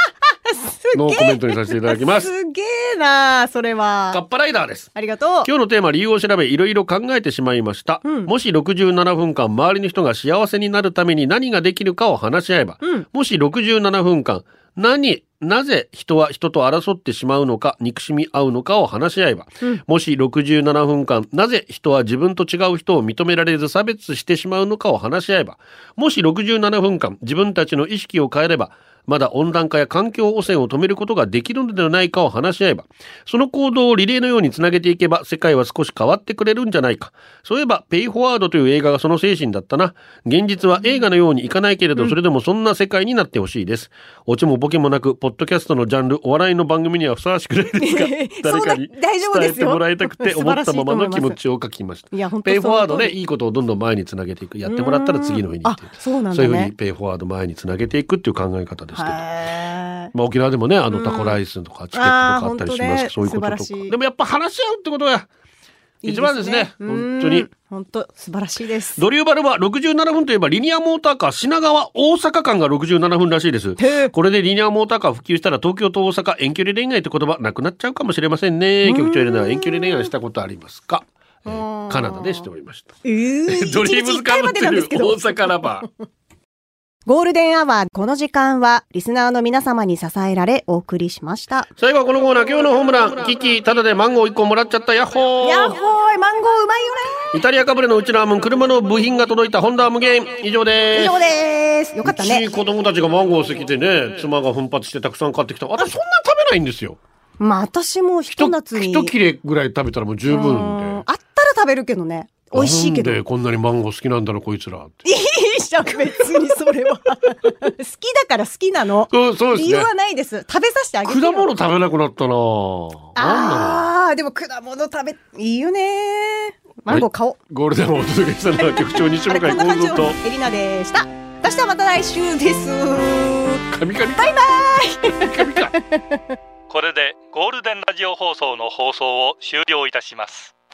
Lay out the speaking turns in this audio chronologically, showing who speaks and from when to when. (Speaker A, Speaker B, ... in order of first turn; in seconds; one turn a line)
Speaker A: 0.5-4.2
Speaker B: 0.9-2.3
Speaker B: 4.1-4.9
Speaker A: 4.9-5.5
Speaker B: 5.4-59.2
Speaker A: 8.0-8.3
Speaker A: 47.8-51.4
Speaker A: 52.1-53.1
Speaker A: 54.6-56.7
Speaker A: 59.0-60.1
Speaker B: 60.1-65.3
Speaker A: 60.9-61.4
Speaker A: 61.9-63.9
Speaker A: 66.0-69.0
Speaker B: 66.0-67.5
Speaker B: 69.0-82.9
Speaker A: 73.8-74.1
Speaker A: 78.8-80.1
Speaker A: 81.5-82.4
Speaker A: 83.0-85.3
Speaker B: 83.5-85.9
Speaker A: 87.0-91.7
Speaker B: 91.8-95.8
Speaker A: 95.4-97.3
Speaker B: 97.3-101.2
Speaker A: 100.9-102.4
Speaker B: 102.0-107.0
Speaker A: 107.4-109.1
Speaker B: 108.3-111.0
Speaker A: 110.3-113.2
Speaker B: 112.5-115.0
Speaker A: 115.0-121.5
Speaker B: 119.1-119.9
Speaker B: 121.0-123.8
Speaker A: 123.2-127.4
Speaker B: 126.9-130.2
Speaker A: 129.2-133.6
Speaker B: 133.7-135.7
Speaker A: 134.2-136.2
Speaker C: 136.7-140.5